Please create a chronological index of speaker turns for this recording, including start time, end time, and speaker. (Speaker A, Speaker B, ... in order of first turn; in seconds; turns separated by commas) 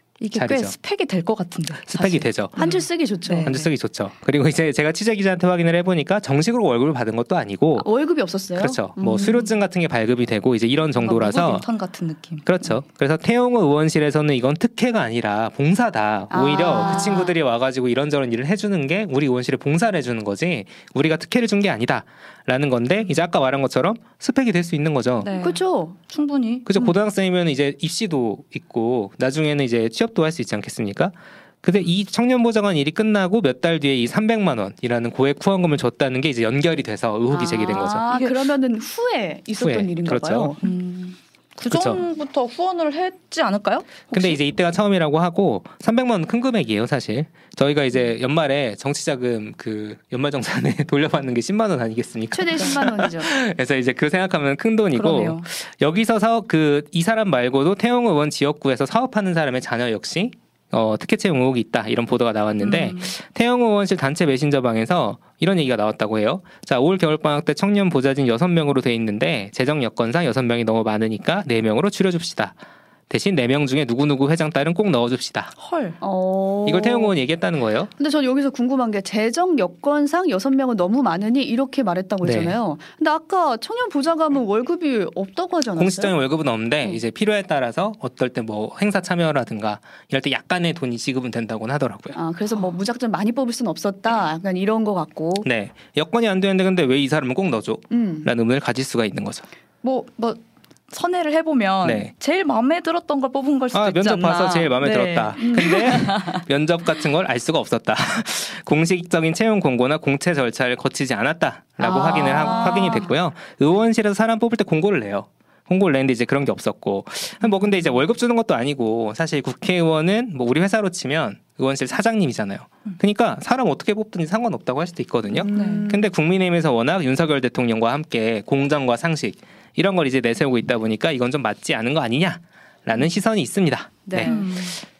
Speaker A: 0.2-3.7, Speaker B: 0.3-0.8, Speaker B: 1.9-2.6, Speaker C: 2.6-3.6, Speaker B: 3.4-7.9, Speaker C: 7.8-9.5, Speaker B: 8.6-11.7, Speaker A: 11.0-12.5, Speaker B: 12.4-25.3, Speaker C: 16.3-17.3, Speaker A: 25.2-26.8, Speaker C: 25.4-26.0, Speaker B: 26.7-38.1, Speaker C: 37.3-40.6, Speaker A: 38.1-38.4, Speaker B: 39.6-40.6, Speaker A: 40.6-44.4, Speaker B: 41.7-42.0, Speaker B: 44.1-72.6, Speaker C: 52.3-53.3, Speaker A: 54.9-55.5, Speaker A: 62.6-63.1, Speaker B: 73.1-75.5, Speaker A: 75.6-76.0, Speaker C: 76.0-77.2, Speaker B: 76.7-77.9, Speaker C: 78.0-86.2, Speaker B: 82.2-82.6, Speaker B: 85.8-92.2, Speaker C: 92.2-95.5, Speaker B: 95.4-99.5, Speaker C: 97.9-98.3, Speaker A: 99.8-106.5, Speaker B: 101.8-102.1, Speaker B: 103.7-134.3, Speaker A: 111.8-113.1, Speaker C: 125.3-126.1, Speaker A: 125.5-125.9, Speaker A: 134.1-134.8, Speaker C: 134.2-134.5